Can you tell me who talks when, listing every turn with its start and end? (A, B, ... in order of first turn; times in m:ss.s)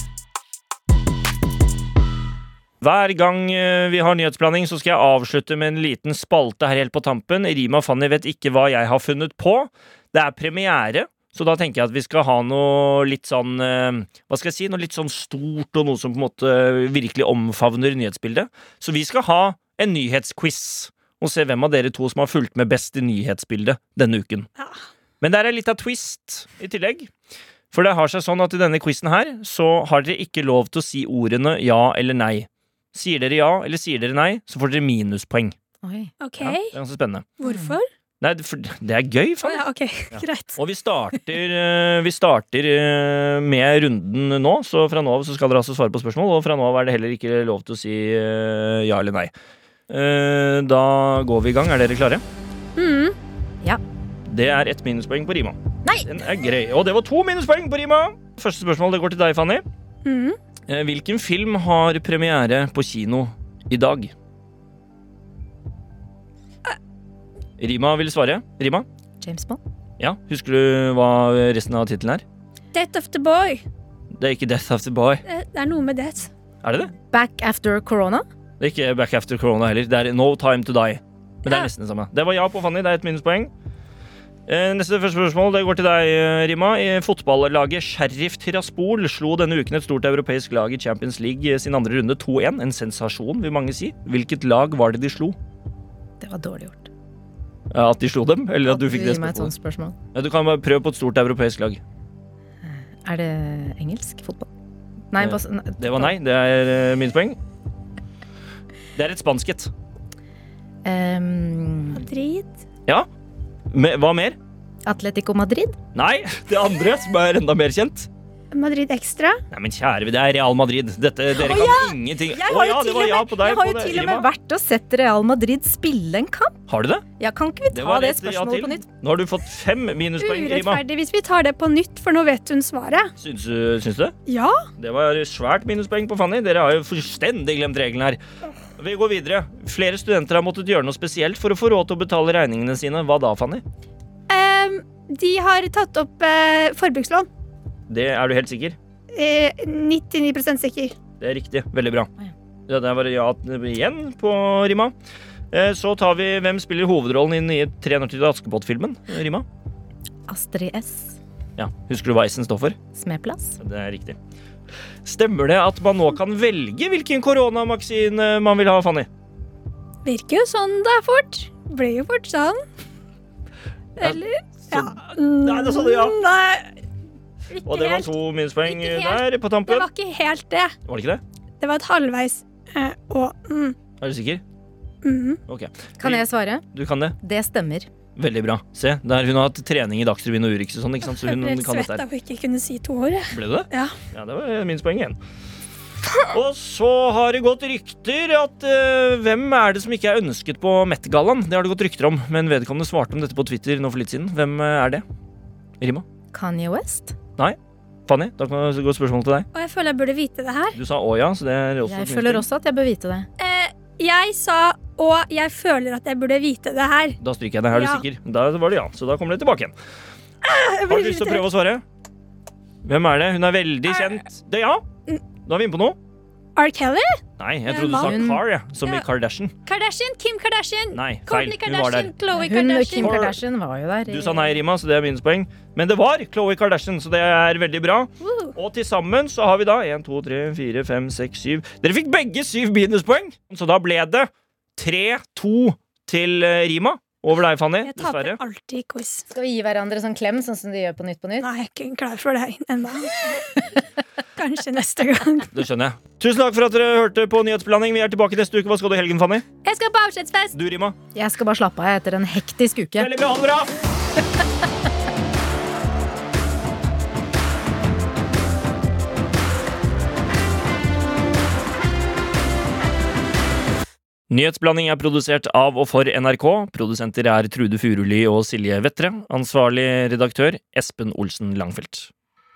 0:02.8-0:24.5 A
0:25.2-0:27.1 A
0:27.7-0:35.5 A
0:35.8-0:36.1 B
0:36.2-0:36.8 C
0:36.4-0:37.3 A
0:37.4-0:37.9 C
0:37.4-0:37.8 B
0:38.2-0:49.3 A
0:39.4-0:40.6 C
0:49.9-0:52.2 A
0:52.8-0:53.2 C
0:54.2-0:59.6 A
0:55.8-0:56.1 B
1:00.0-1:00.4 C
1:00.7-1:04.1 A
1:07.6-1:08.9 A
1:09.2-1:09.6 B
1:10.0-1:12.2 A
1:12.7-1:13.6 C
1:14.2-1:15.2 A
1:15.2-1:16.3 C
1:16.6-1:16.9 A
1:17.1-1:18.2 B
1:18.6-1:23.5 A
1:24.5-1:35.4 A
1:36.2-1:36.9 B
1:37.7-1:39.5 A
1:38.7-1:40.0 B
1:40.1-1:41.8 A
1:42.6-1:44.5 B
1:45.1-1:46.1 B
1:45.2-1:47.4 A
1:49.0-1:49.7 A
1:50.8-1:52.0 B
1:51.9-1:52.6 C
1:53.7-1:54.4 A
1:54.9-1:55.8 B
1:55.9-1:58.1 A
1:58.5-1:59.4 C
1:59.5-2:04.3 A
2:01.4-2:06.6 B
2:06.7-2:07.0 A
2:07.2-2:08.8 B
2:07.7-2:10.8 A
2:10.2-2:13.1 C
2:13.2-2:14.1 A
2:14.3-2:14.7 C
2:14.8-2:18.2 A
2:18.8-2:23.6 A
2:24.3-2:27.3 C
2:27.9-2:28.8 A
2:29.1-2:30.9 C
2:31.2-2:32.1 A
2:32.7-2:34.9 A
2:35.5-2:39.5 A
2:40.3-2:41.2 B
2:41.6-2:42.8 A
2:42.9-2:43.6 B
2:43.6-2:44.2 A
2:45.0-2:49.1 A
2:50.0-2:52.6 C
2:54.0-2:56.7 C
2:54.0-2:56.2 A
2:57.5-3:00.7 C
2:57.6-2:59.9 A
3:00.9-3:01.2 A
3:01.6-3:03.8 C
3:04.0-3:04.4 A
3:05.0-3:05.4 C
3:05.5-3:07.2 A
3:06.0-3:06.6 B
3:07.2-3:07.9 B
3:08.2-3:12.0 A
3:11.1-3:13.9 C
3:13.3-3:15.2 A
3:16.3-3:25.0 A
3:25.8-3:26.0 A
3:26.3-3:27.2 B
3:27.4-3:29.5 A
3:29.5-3:30.8 C
3:30.7-3:32.4 A
3:31.9-3:33.3 B
3:33.4-3:37.2 C
3:37.2-3:39.7 A
3:37.7-3:38.0 C
3:40.4-3:41.5 C
3:40.9-3:41.8 A
3:42.8-3:44.8 A
3:45.4-3:46.0 A
3:46.6-3:48.2 C
3:47.4-3:49.5 A
3:48.0-3:48.4 B
3:49.6-3:53.3 C
3:50.9-3:52.1 A
3:52.3-3:54.6 B
3:53.0-3:53.4 A
3:54.1-4:08.4 A
3:58.2-3:58.5 C
4:07.8-4:09.2 C
4:09.3-4:11.5 B
4:11.4-4:15.5 C
4:15.5-4:19.4 A
4:19.6-4:20.5 C
4:20.5-4:21.0 A
4:21.1-4:23.1 B
4:23.0-4:23.8 A
4:34.3-4:42.1 A